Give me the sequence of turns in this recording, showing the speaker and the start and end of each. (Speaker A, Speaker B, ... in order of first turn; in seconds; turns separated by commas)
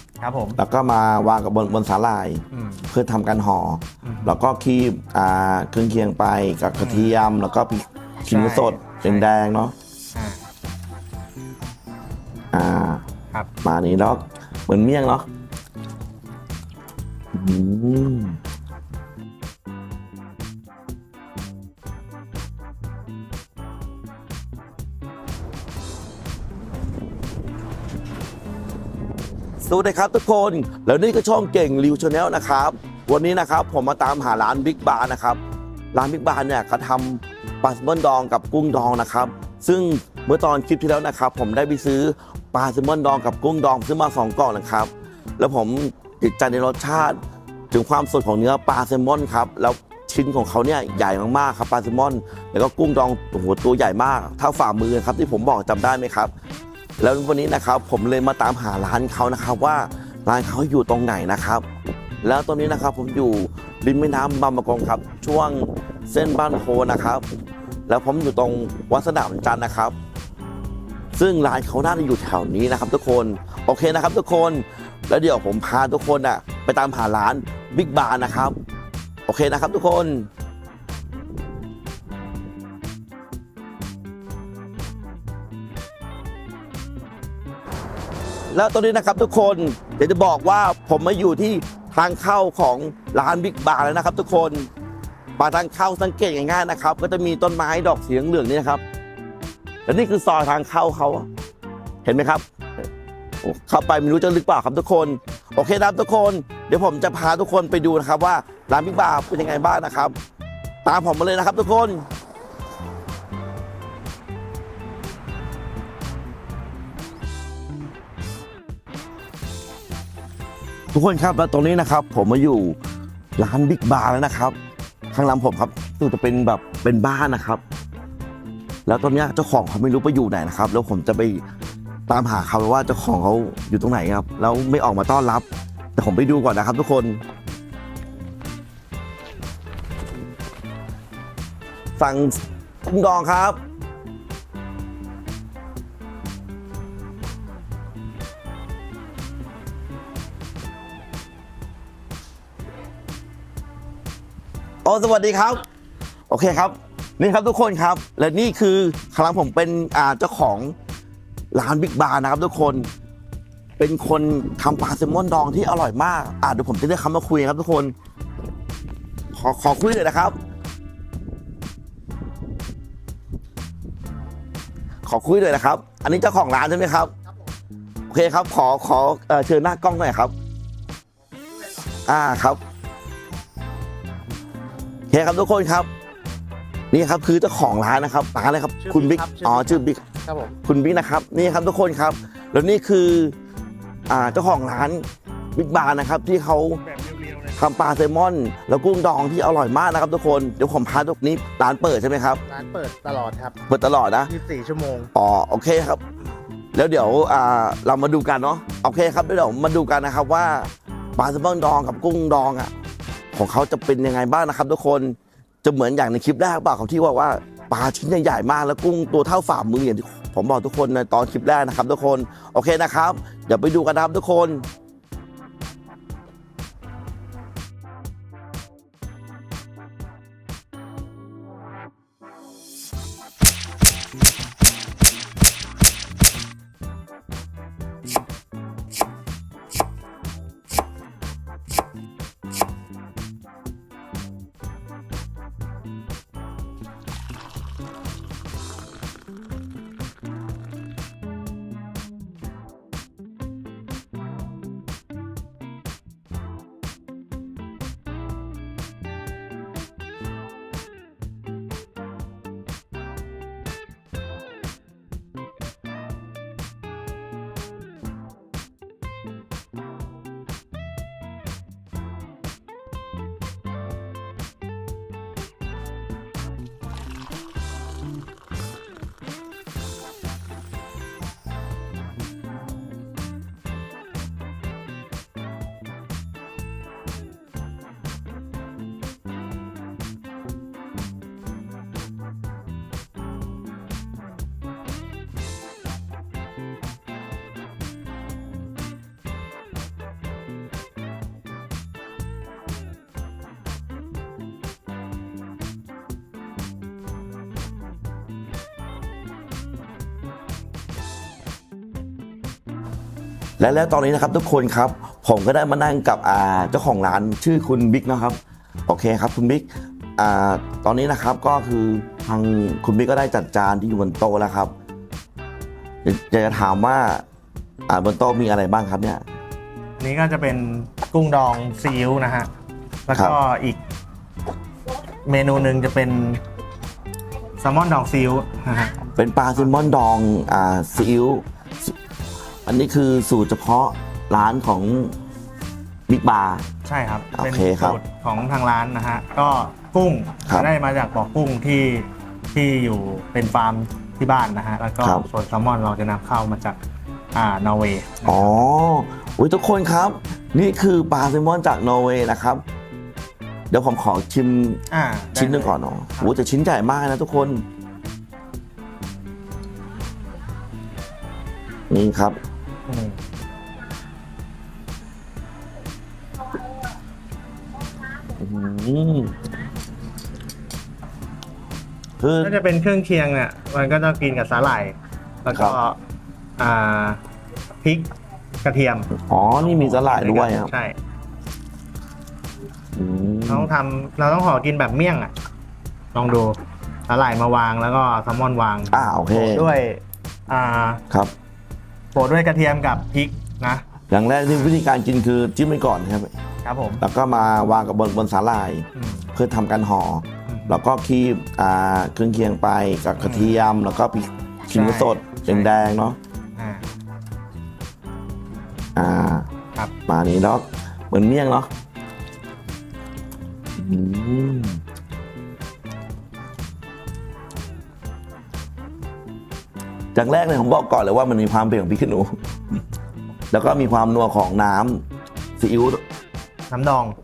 Speaker A: 0.2-0.6, Speaker B: 0.6-9.7, Speaker A: 2.5-2.9, Speaker A: 4.0-4.3, Speaker A: 6.8-7.2, Speaker A: 8.3-9.3, Speaker A: 10.1-10.4, Speaker B: 12.5-13.0, Speaker B: 13.6-15.3, Speaker B: 17.3-18.4, Speaker B: 29.6-35.4, Speaker B: 35.9-47.2, Speaker B: 47.7-56.3, Speaker B: 57.0-61.7, Speaker B: 62.2-67.2, Speaker B: 67.9-70.0, Speaker B: 71.1-78.6, Speaker B: 79.3-80.3, Speaker B: 88.5-94.7, Speaker B: 95.4-98.8, Speaker B: 99.9-101.3, Speaker B: 102.0-102.4, Speaker B: 103.4-110.2, Speaker B: 110.8-112.1, Speaker B: 120.9-122.8, Speaker B: 123.4-124.6, Speaker B: 125.1-127.6, Speaker B: 128.9-131.4, Speaker B: 132.1-137.2, Speaker B: 142.0-143.6, Speaker B: 154.8-155.6, Speaker B: 156.3-160.8, Speaker B: 161.5-162.9, Speaker B: 163.8-167.9, Speaker B: 169.3-170.4, Speaker B: 175.1-177.1, Speaker B: 178.1-180.3, Speaker B: 182.1-182.6, Speaker B: 185.1-185.9, Speaker B: 186.9-193.3, Speaker A: 188.8-190.5, Speaker B: 194.1-195.0, Speaker B: 195.6-196.8, Speaker A: 196.8-197.6, Speaker B: 197.6-202.4, Speaker A: 202.5-203.6, Speaker B: 203.7-204.3, Speaker A: 204.3-205.1, Speaker B: 205.1-206.0, Speaker B: 206.7-212.7, Speaker B: 213.3-224.7, Speaker B: 313.6-324.7, Speaker B: 326.0-327.2, Speaker B: 327.9-329.2, Speaker A: 330.0-332.5, Speaker A: 333.1-333.8, Speaker B: 333.1-333.4, Speaker A: 335.3-336.4, Speaker A: 337.6-339.0, Speaker B: 339.2-341.9, Speaker B: 342.7-345.1, Speaker B: 346.1-346.6, Speaker A: 346.9-356.8, Speaker B: 347.3-348.0, Speaker A: 357.3-358.5, Speaker B: 358.2-362.6, Speaker B: 363.7-364.8, Speaker A: 364.9-366.3, Speaker B: 365.4-367.6, Speaker B: 371.9-372.4, Speaker A: 372.9-373.2, Speaker B: 378.4-379.4, Speaker B: 382.2-382.6, Speaker A: 382.4-386.0, Speaker B: 385.5-385.8, Speaker A: 386.6-387.2, Speaker A: 387.8-388.1, Speaker A: 388.6-391.0, Speaker B: 389.1-390.7, Speaker B: 393.0-393.7, Speaker A: 393.5-395.3, Speaker A: 396.1-396.6, Speaker A: 397.1-401.0, Speaker B: 398.9-399.7, Speaker A: 402.1-403.8, Speaker B: 404.1-406.3, Speaker A: 406.6-407.1, Speaker B: 407.0-416.2, Speaker A: 408.9-409.3, Speaker A: 410.5-410.8, Speaker A: 413.2-413.6, Speaker A: 414.7-415.8, Speaker A: 416.6-416.9, Speaker B: 419.0-419.5, Speaker B: 420.1-421.7, Speaker B: 423.8-424.8, Speaker B: 430.1-432.4, Speaker B: 433.5-435.0, Speaker B: 435.6-436.0, Speaker A: 436.7-437.2